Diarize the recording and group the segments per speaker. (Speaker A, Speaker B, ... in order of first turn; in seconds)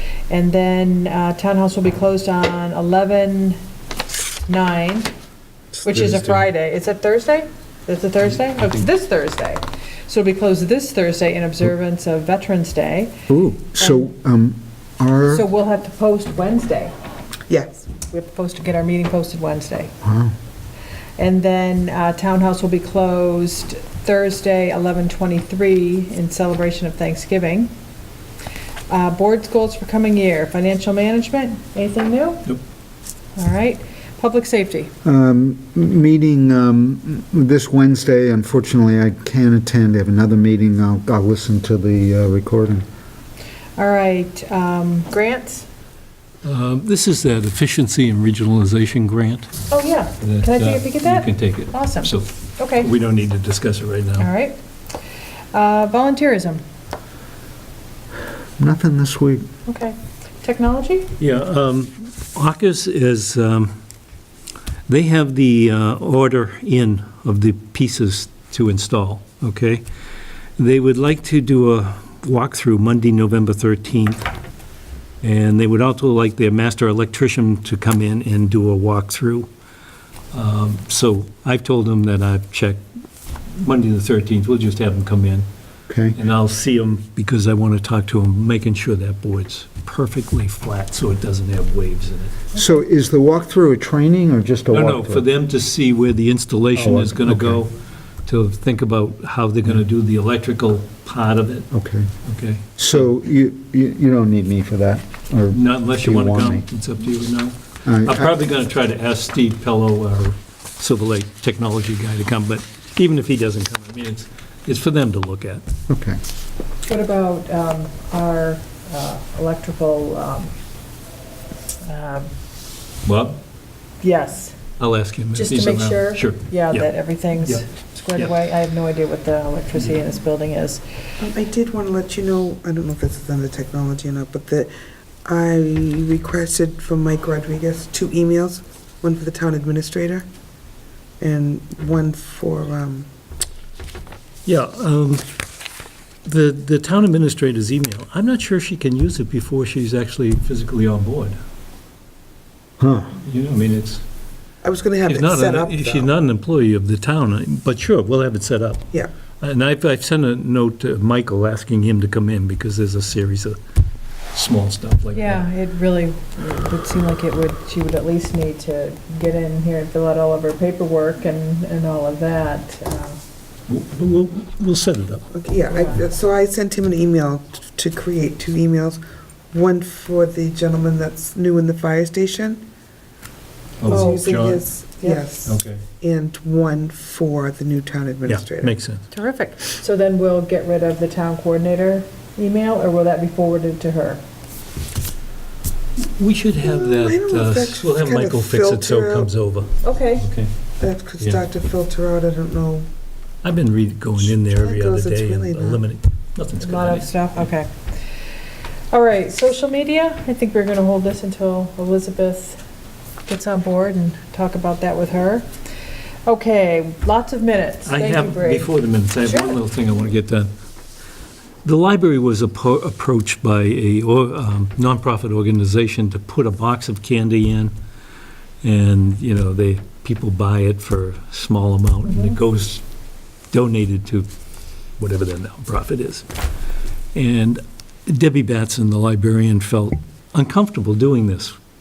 Speaker A: 0.3-3.6, 4.5-5.1, 5.8-13.2, 13.8-14.1, 15.2-16.9, 18.0-19.9, 21.2-27.7, 28.9-32.5, 33.4-34.9, 43.8-45.6, 49.7-52.9, 54.2-54.6, 55.5-56.6, 59.7-61.1, 116.9-120.5, 121.8-122.3, 124.0-124.6, 125.3-130.8, 165.1-173.2, 175.7-176.0, 183.8-184.4, 185.0-185.3, 189.1-194.2, 199.8-200.3, 206.6-207.7, 208.9-212.6, 213.3-215.5, 216.2-219.6, 232.1-232.3
Speaker B: 5.8-6.4, 46.4-49.5, 50.2-54.3, 61.2-63.7, 64.9-69.8, 70.6-74.3, 75.2-79.5, 80.3-82.8, 83.5-85.5, 86.1-92.4, 94.7-97.7, 98.2-101.7, 102.2-103.0, 105.5-115.6, 123.0-123.4, 124.8-127.6, 144.4-145.2, 146.2-151.4, 153.2-154.0, 155.0-158.9, 159.4-163.6, 164.3-165.4, 173.7-175.2, 183.8-184.7, 185.4-185.8, 188.2-189.1, 196.0-200.5, 203.4-207.5, 217.8-220.5, 221.6-227.7, 228.6-232.8, 233.5-234.3, 235.0-236.3, 237.1-241.6
Speaker C: 13.3-15.4, 20.0-20.3, 35.0-42.9, 58.6-59.5, 85.9-86.2, 92.5-95.2, 96.7-97.6, 101.7-102.1, 102.8-106.7, 107.8-108.3, 115.9-116.2, 152.8-153.2
Speaker D: 17.5-17.9, 131.2-134.7, 135.2-140.3, 141.2-143.1, 154.6-156.1, 175.3-182.6, 183.9-188.7, 196.6-199.3, 200.8-202.9, 204.3-205.8